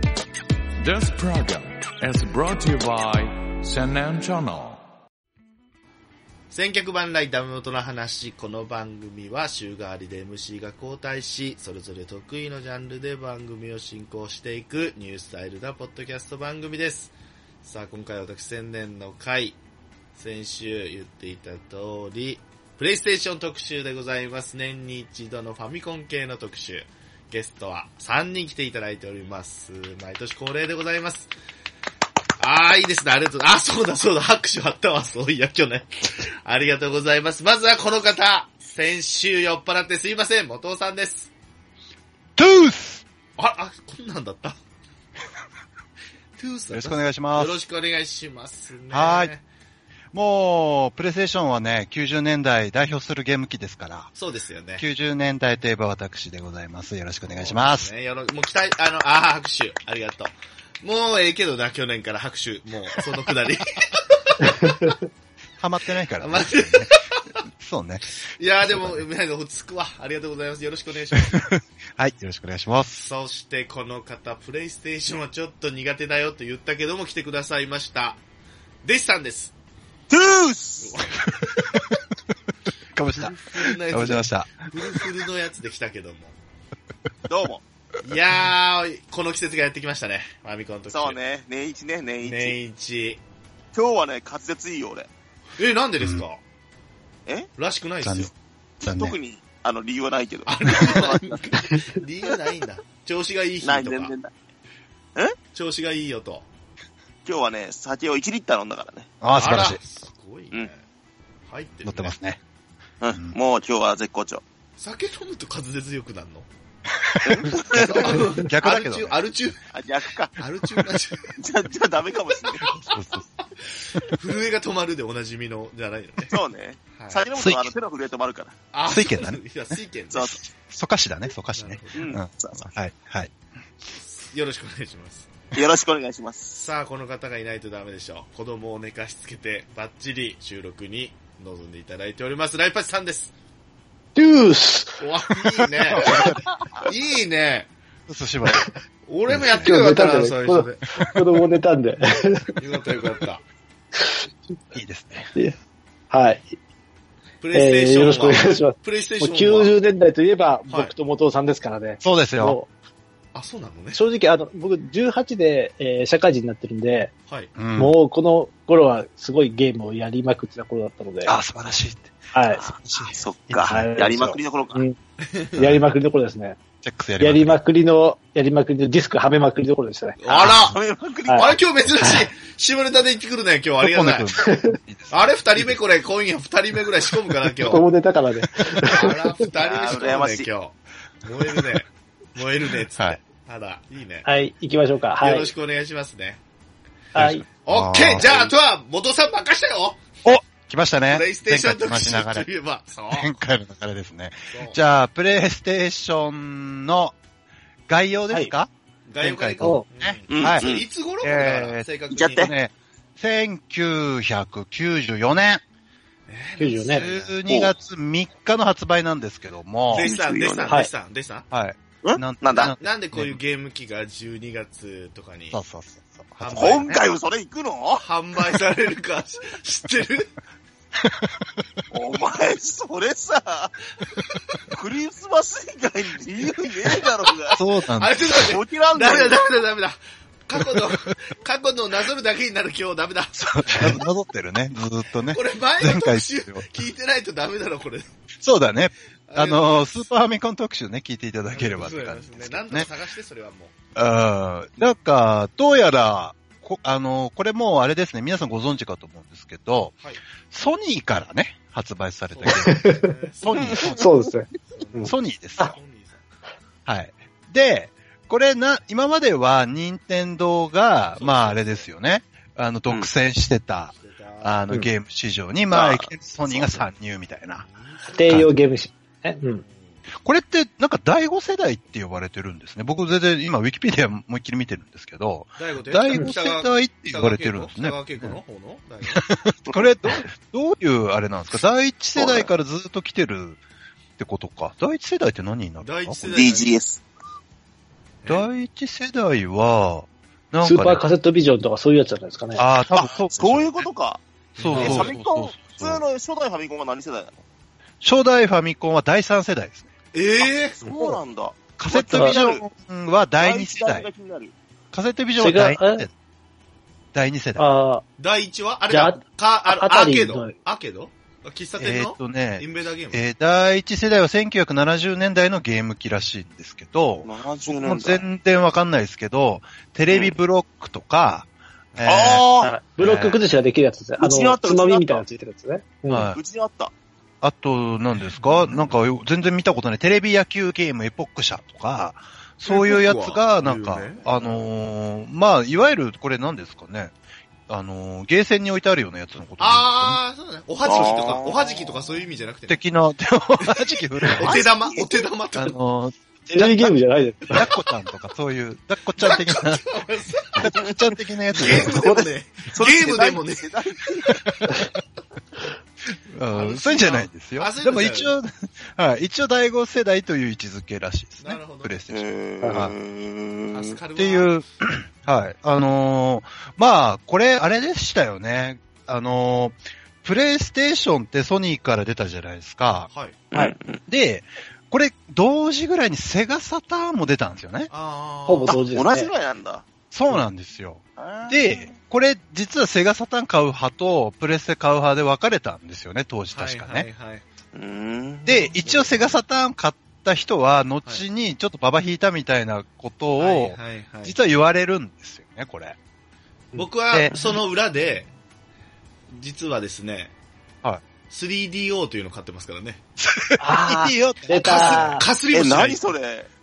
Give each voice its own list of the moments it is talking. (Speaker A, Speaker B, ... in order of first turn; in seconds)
Speaker A: 0.8-4.8
Speaker B: 6.5-17.1, 17.6-19.6, 20.2-31.3, 32.4-41.3, 43.4-44.6, 46.4-49.4, 54.2-54.9, 57.3-64.5, 66.2-67.3, 68.4-71.5, 73.0-78.2, 78.8-79.5, 80.8-81.8, 83.2-86.3, 88.0-91.2, 92.2-93.2, 95.6-96.4, 97.6-98.3, 100.5-104.1, 105.5-106.5, 109.4-110.8, 111.5-112.2, 114.8-116.5, 117.7-119.7, 120.4-121.4, 122.4-126.3, 127.0-127.2, 128.7-130.4, 131.6-132.1, 133.9-135.3, 136.6-143.3, 145.0-147.7, 149.1-150.9, 152.6-153.4, 157.4-159.7, 163.3-164.0, 175.3-175.5, 180.2-180.8, 181.3-184.4, 185.1-187.8, 188.8-194.3, 195.2-196.4, 197.6-200.2, 201.1-203.3, 204.5-204.8, 209.1-212.5, 216.3-217.4, 219.9-221.5, 222.8-225.6, 226.4-227.0, 228.0-230.3, 237.3-244.0, 245.3-248.2, 249.3-250.1, 251.5-253.7, 262.3-264.0, 264.7-266.3, 271.1-271.9, 273.9-274.6, 277.6-278.5, 279.6-280.0, 285.6-289.2, 295.8-296.7, 304.6-305.1, 310.1-310.8, 318.2-323.2, 338.4-338.7, 342.7-344.6, 349.6-352.8, 353.6-355.8, 359.2-360.7, 361.5-363.7, 366.5-368.3, 371.4-372.0, 373.7-374.6, 383.1-383.4, 387.9-388.9, 396.5-397.4, 398.7-399.4, 403.4-404.4, 406.8-408.3, 409.3-410.3, 411.3-413.0, 414.5-416.1
Speaker C: 42.4-43.0, 46.7-47.6, 48.9-49.3, 50.1-54.1, 54.8-57.9, 65.6-66.9, 67.6-69.0, 71.2-73.1, 83.0-85.1, 98.0-98.3, 98.8-99.2, 109.2-109.8, 111.8-112.4, 117.0-119.2, 122.7-123.2, 127.3-127.7, 128.9-129.8, 130.5-133.3, 145.9-146.5, 148.1-148.6, 149.3-149.8, 154.7-155.3, 162.0-162.6, 167.6-167.9, 171.2-173.9, 175.6-175.8, 176.8-177.6, 183.8-185.8, 197.2-198.5, 200.2-202.5, 203.1-207.2, 207.9-210.7, 211.2-215.6, 216.9-220.1, 221.5-223.4, 225.5-227.0, 231.1-231.3, 237.6-238.4, 243.4-246.7, 248.4-252.9, 253.9-259.9, 260.5-262.9, 263.4-264.3, 265.0-265.8, 266.9-277.6, 278.3-278.5, 280.2-288.4, 289.1-293.6, 294.2-296.2, 298.3-301.0, 302.6-303.7, 304.6-306.0, 308.0-309.9, 311.8-314.1, 314.9-316.1, 317.1-317.7, 321.8-332.5, 333.0-333.4, 336.1-336.4, 337.4-347.1, 347.7-350.2, 352.7-354.5, 355.6-357.0, 357.5-359.9, 360.6-362.0, 364.3-365.0, 366.3-372.9, 374.2-383.1, 384.1-387.9, 390.1-397.1, 398.5-406.0, 407.1-407.4, 413.2-415.2
Speaker D: 64.6-64.9, 144.2-145.0, 149.6-152.6, 156.1-156.6, 157.5-162.7, 163.9-167.1, 167.8-171.4, 172.3-172.7, 173.6-175.0, 175.6-176.6, 177.2-180.2, 182.0-182.3, 184.4-184.8, 187.6-189.2, 194.2-195.5, 197.2-197.4, 216.6-217.1, 262.5-265.7, 278.1-279.6, 300.6-302.6, 304.8-305.1, 310.8-311.2, 312.1-312.4, 315.4-316.1, 317.6-318.0, 318.9-320.5, 332.6-336.3, 356.5-357.7, 372.6-372.9, 388.5-389.3, 413.6-415.2
Speaker E: 80.1-81.0, 87.3-87.6, 90.9-92.6, 93.7-95.1, 98.8-101.6, 103.6-104.3, 107.2-109.1, 113.0-114.4, 117.2-118.3, 119.7-120.4, 121.4-122.7, 126.3-128.5, 130.1-130.5, 131.9-132.7, 135.5-136.6, 146.0-146.9, 173.1-174.8, 180.3-181.6, 189.5-190.5, 210.3-210.9, 212.1-212.5, 220.0-220.7, 222.0-222.8, 226.5-228.1, 231.9-233.8, 234.7-237.6, 238.3-239.4, 275.7-276.0, 289.7-289.9, 292.1-292.5, 296.3-297.0, 302.9-307.3, 310.8-312.6, 313.4-314.5, 327.2-328.2, 330.1-330.3, 332.0-332.8, 334.2-335.2, 336.3-336.9, 350.9-352.2, 354.4-355.3, 361.6-364.4, 372.1-374.0, 383.5-384.0, 388.6-389.9, 391.2-391.9, 397.7-398.7, 415.5-416.5